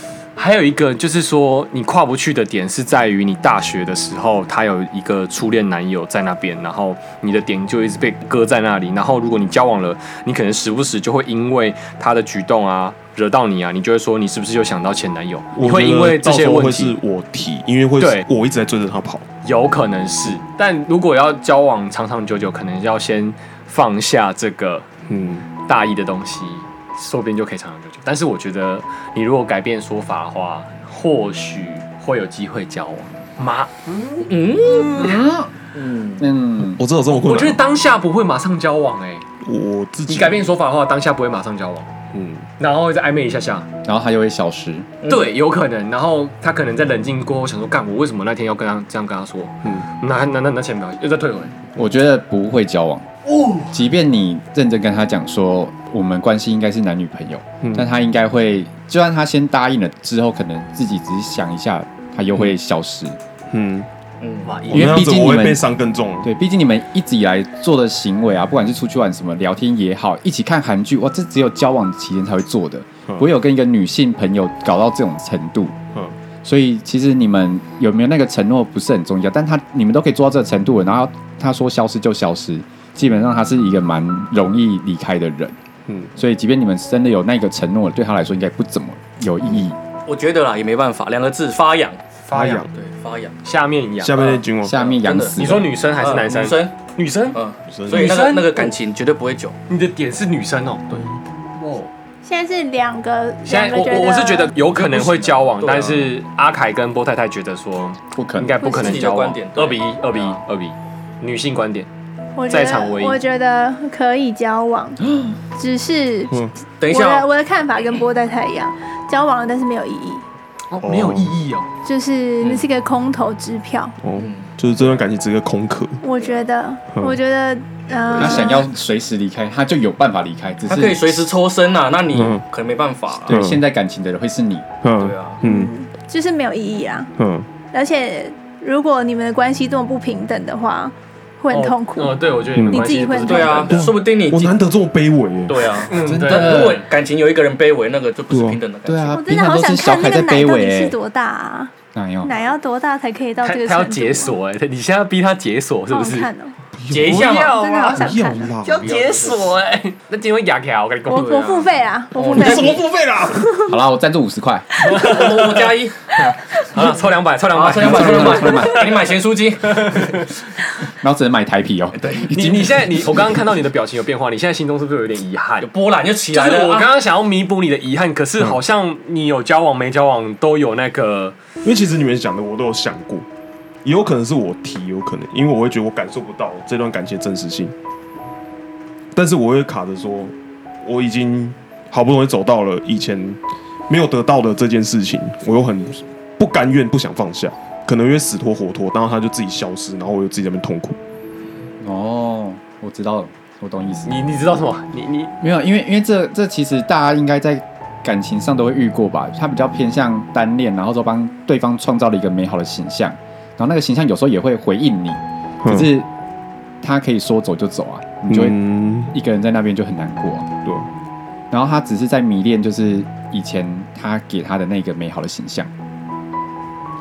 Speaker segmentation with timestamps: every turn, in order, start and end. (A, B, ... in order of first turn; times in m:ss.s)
0:00.4-0:17.0 A
0:15.6-0:19.3 B
0:18.0-0:18.3 A
0:19.4-0:24.8 A
0:25.1-0:25.5 B
0:25.6-0:35.2 A
0:34.2-0:35.2 C
0:35.0-0:35.5 D
0:35.7-0:36.3 C
0:36.2-0:36.8 D
0:36.6-0:37.6 B
0:37.1-0:39.2 A
0:39.4-0:40.5 B
0:40.1-0:41.9 A
0:42.1-0:42.5 B
0:42.6-0:43.7 A
0:43.8-0:44.9 D
0:45.0-0:45.3 C
0:45.0-0:51.6 A
0:51.8-0:53.1 D
0:53.3-0:53.7 A
0:53.7-1:03.2 D
0:57.6-0:57.9 B
1:03.5-1:03.9 B
1:04.2-1:04.6 C
1:04.4-1:05.1 A
1:04.7-1:05.7 D
1:04.7-1:06.3 B
1:06.2-1:15.8 D
1:16.4-1:25.6 D
1:25.9-1:26.1 B
1:26.2-1:29.8 D
1:30.1-1:32.0 C
1:32.3-1:32.7 A
1:32.3-1:32.7 B
1:32.7-1:33.4 C
1:33.4-1:34.3 A
1:34.0-1:34.8 B
1:34.2-1:35.4 C
1:34.6-1:35.7 D
1:35.4-1:38.8 A
1:36.0-1:36.7 C
1:37.3-1:39.6 C
1:37.7-1:38.2 B
1:39.7-1:41.9 A
1:42.2-1:44.6 E
1:43.5-1:51.9 A
1:44.7-1:46.2 C
1:48.2-1:48.7 D
1:48.6-1:50.4 C
1:52.4-2:00.2 E
1:52.5-1:53.2 A
1:56.8-1:57.3 C
2:00.7-2:01.7 A
2:00.8-2:01.4 B
2:01.8-2:04.0 E
2:04.0-2:06.0 B
2:04.2-2:04.9 C
2:06.0-2:08.7 E
2:06.2-2:06.4 C
2:08.2-2:11.2 D
2:10.7-2:13.4 C
2:12.1-2:12.4 B
2:13.3-2:13.6 B
2:13.3-2:14.7 D
2:14.8-2:15.7 B
2:15.0-2:15.4 C
2:15.4-2:17.1 E
2:17.2-2:17.5 B
2:17.7-2:23.8 E
2:21.5-2:23.9 A
2:22.5-2:22.9 B
2:23.2-2:24.6 C
2:23.7-2:25.7 B
2:25.5-2:29.2 C
2:25.9-2:26.8 A
2:25.9-2:26.8 D
2:28.3-2:28.6 B
2:28.9-2:31.0 D
2:29.1-2:34.4 E
2:31.9-2:32.3 D
2:33.4-2:36.3 A
2:35.9-2:36.6 E
2:36.8-2:37.4 B
2:36.9-2:37.7 C
2:37.0-2:41.4 A
2:37.5-2:38.6 E
2:37.9-2:38.9 B
2:38.6-2:39.5 C
2:41.1-2:42.8 E
2:41.1-2:42.8 C
2:42.3-2:43.6 B
2:43.4-2:43.8 E
2:43.7-2:44.7 D
2:44.8-2:45.1 E
2:44.8-2:45.7 A
2:44.9-2:47.0 C
2:46.6-2:49.1 A
2:47.5-2:50.3 C
2:47.8-2:48.8 D
2:49.8-2:50.2 A
2:51.0-2:53.1 D
2:52.0-2:52.3 C
2:52.3-2:55.7 A
2:55.6-2:56.9 C
2:56.3-3:01.4 A
3:01.6-3:03.3 B
3:03.8-3:07.7 B
3:09.1-3:21.0 B
3:21.8-3:24.2 D
3:24.1-3:25.3 A
3:25.4-3:36.1 D
3:35.6-3:35.9 B
3:36.8-3:40.5 D
3:38.3-3:39.1 B
3:41.5-3:45.7 D